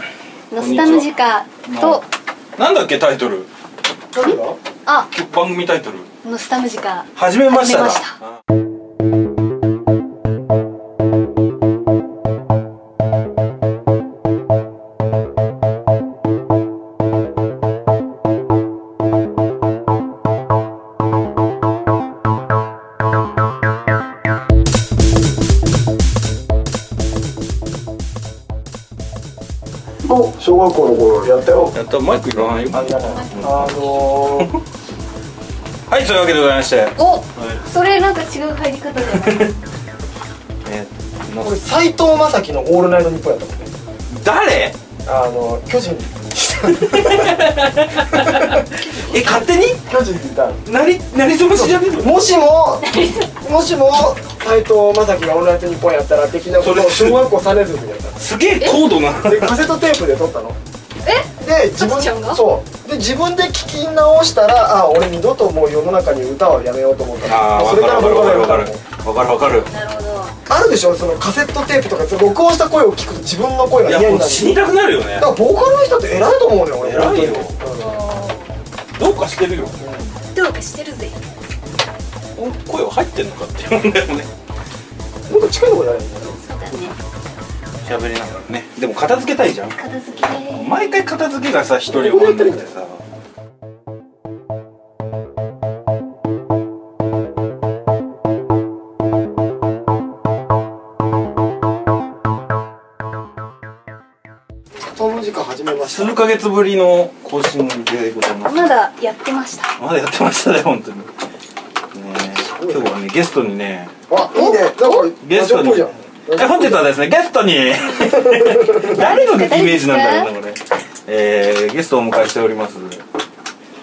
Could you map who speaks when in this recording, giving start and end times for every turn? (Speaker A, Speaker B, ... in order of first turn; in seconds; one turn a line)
Speaker A: 0.5-2.0
Speaker B: 0.6-1.1
Speaker B: 1.6-2.0
Speaker B: 2.6-3.5
Speaker C: 4.1-4.6
Speaker A: 4.1-5.1
Speaker B: 5.1-6.1
Speaker A: 6.2-8.2
Speaker B: 7.2-8.2
Speaker C: 30.1-31.8
Speaker B: 31.7-34.6
Speaker C: 32.7-34.5
Speaker A: 33.0-33.3
Speaker B: 35.9-37.6
Speaker A: 37.0-39.5
Speaker B: 39.2-39.5
Speaker B: 40.6-41.6
Speaker C: 41.4-43.7
Speaker B: 44.1-44.8
Speaker C: 45.0-47.5
Speaker B: 46.8-49.8
Speaker C: 48.1-50.6
Speaker B: 50.6-52.2
Speaker C: 51.5-58.2
Speaker A: 52.9-53.3
Speaker B: 56.6-57.3
Speaker B: 58.2-59.6
Speaker C: 59.2-60.6
Speaker A: 61.0-62.4
Speaker C: 61.4-68.8
Speaker B: 67.2-69.7
Speaker A: 69.7-70.3
Speaker C: 70.5-74.6
Speaker B: 73.8-75.3
Speaker C: 75.2-77.9
Speaker B: 76.8-77.6
Speaker A: 77.8-78.5
Speaker B: 79.0-79.8
Speaker C: 79.8-80.2
Speaker A: 80.3-81.3
Speaker B: 82.3-84.3
Speaker C: 85.3-86.4
Speaker A: 86.4-86.9
Speaker B: 87.8-89.8
Speaker A: 89.7-90.8
Speaker B: 90.5-93.0
Speaker C: 91.9-92.7
Speaker C: 104.8-106.2
Speaker B: 105.8-108.7
Speaker A: 108.4-109.7
Speaker B: 109.8-111.1
Speaker B: 111.9-113.9
Speaker C: 112.5-112.9
Speaker C: 114.1-116.8
Speaker A: 114.3-115.1
Speaker B: 115.2-123.0
Speaker C: 118.0-119.0
Speaker A: 118.9-120.3